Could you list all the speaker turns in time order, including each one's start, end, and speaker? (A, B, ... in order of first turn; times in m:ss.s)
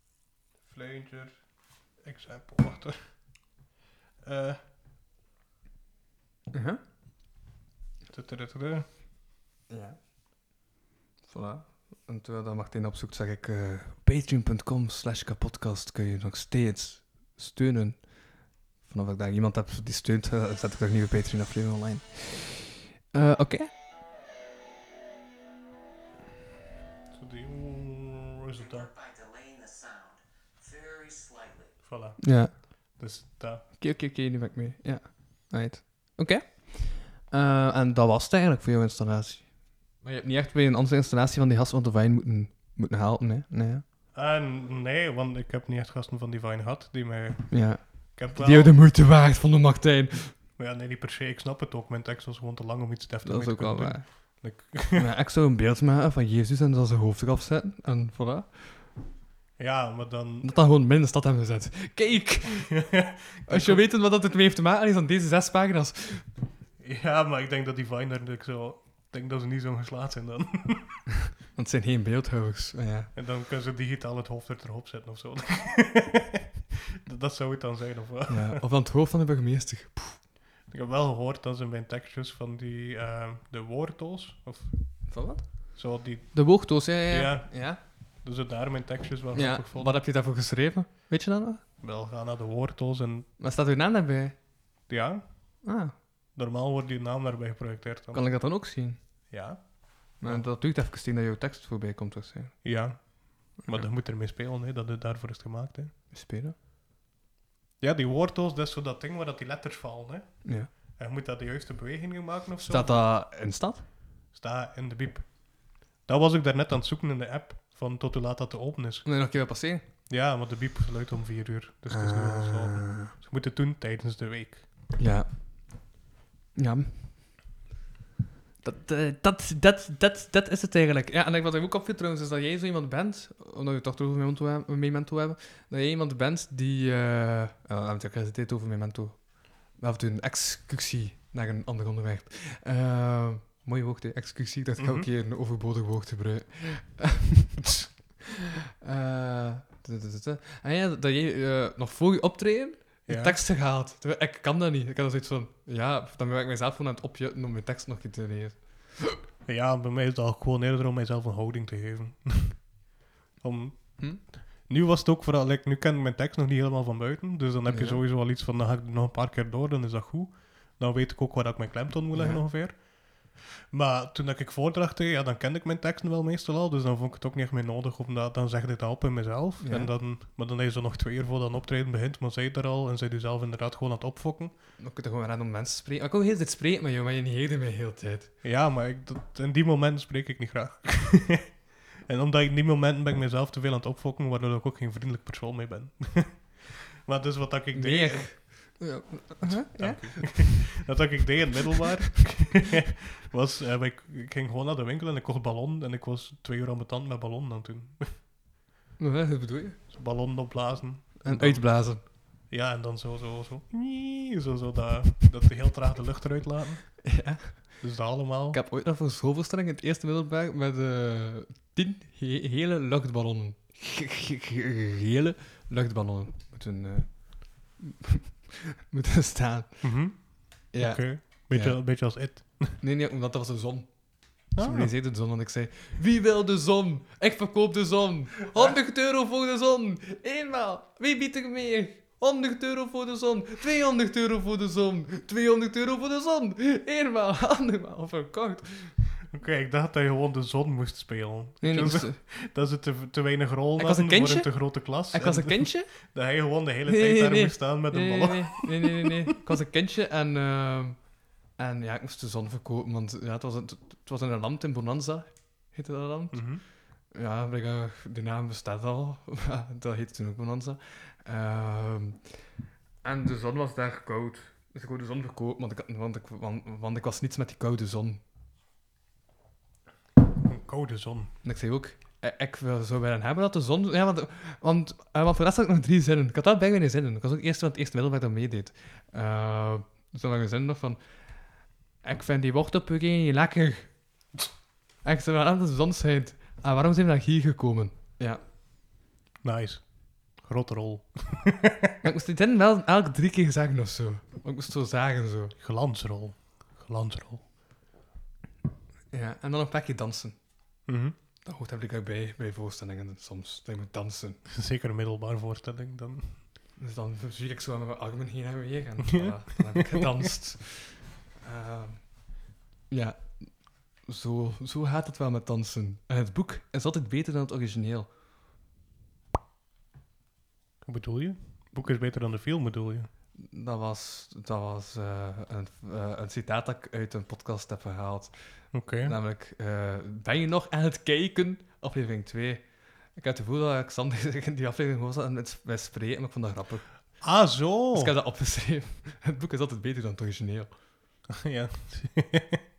0:00.6-0:03.5 A
0:04.2-0:04.6 A
0:06.5-0:06.8 B
0:08.1-0:08.9 A
0:09.7-0:10.0 B
0:11.2-0:23.7 B
0:27.1-0:28.9 A
0:28.6-0:31.8 C
0:31.8-0:33.6 A
0:32.2-0:33.0 B
0:33.8-0:43.8 B
0:44.1-0:48.8 A
0:47.5-0:50.4 B
0:50.6-0:55.1 A
0:53.2-0:58.9 B
0:59.6-1:00.5 A
1:00.4-1:06.3 B
1:02.4-1:03.8 A
1:06.8-1:11.0 A
1:11.5-1:13.1 B
1:13.1-1:16.4 A
1:17.0-1:18.6 A
1:18.3-1:20.2 B
1:20.7-1:25.2 A
1:25.1-1:27.8 B
1:25.7-1:30.0 A
1:29.3-1:31.6 B
1:31.8-1:33.3 A
1:33.4-1:34.4 B
1:34.9-1:35.7 A
1:35.6-1:35.9 B
1:36.3-1:38.3 A
1:38.1-1:39.3 B
1:39.3-1:40.5 A
1:40.2-1:42.8 B
1:42.6-1:45.9 A
1:46.1-1:46.5 B
1:47.8-1:53.1 A
1:50.4-1:50.7 B
1:52.6-1:53.8 B
1:54.3-1:59.1 A
1:59.0-1:59.8 B
2:00.1-2:04.7 A
2:01.9-2:03.1 B
2:05.0-2:05.9 B
2:06.5-2:07.3 B
2:08.6-2:27.7 B
2:24.8-2:25.1 A
2:28.8-2:39.2 B
2:33.0-2:33.4 A
2:39.4-3:04.5 A
2:47.7-2:48.0 B
2:52.1-2:52.4 B
2:59.6-2:59.9 B
3:04.8-3:08.3 B
3:08.4-3:18.8 A
3:17.7-3:20.8 B
3:19.4-3:28.2 A
3:29.0-3:29.8 B
3:29.9-3:37.3 A
3:31.2-3:32.0 B
3:37.0-3:37.9 B
3:37.8-3:38.6 A
3:38.5-3:50.0 B
3:49.8-3:52.8 A
3:50.7-4:09.0 B
3:54.5-3:54.9 A
3:58.5-3:58.8 A
4:09.3-4:19.1 A
4:11.6-4:12.2 B
4:13.8-4:16.2 B
4:16.8-4:32.4 B
4:26.3-4:26.6 A
4:33.0-4:38.2 B
4:40.4-4:41.3 A
4:41.4-4:54.0 B
4:55.0-4:58.4 B
4:59.4-5:01.9 A
5:02.0-5:05.5 B
5:05.6-5:07.5 A
5:09.1-5:10.5 B
5:10.8-5:11.2 A
5:11.4-5:14.4 B
5:14.5-5:16.4 A
5:16.8-5:28.1 B
5:19.1-5:20.0 A
5:30.8-5:33.1 A
5:33.4-5:50.7 B
5:38.7-5:39.1 A
5:47.2-5:48.1 A
5:51.4-5:52.6 A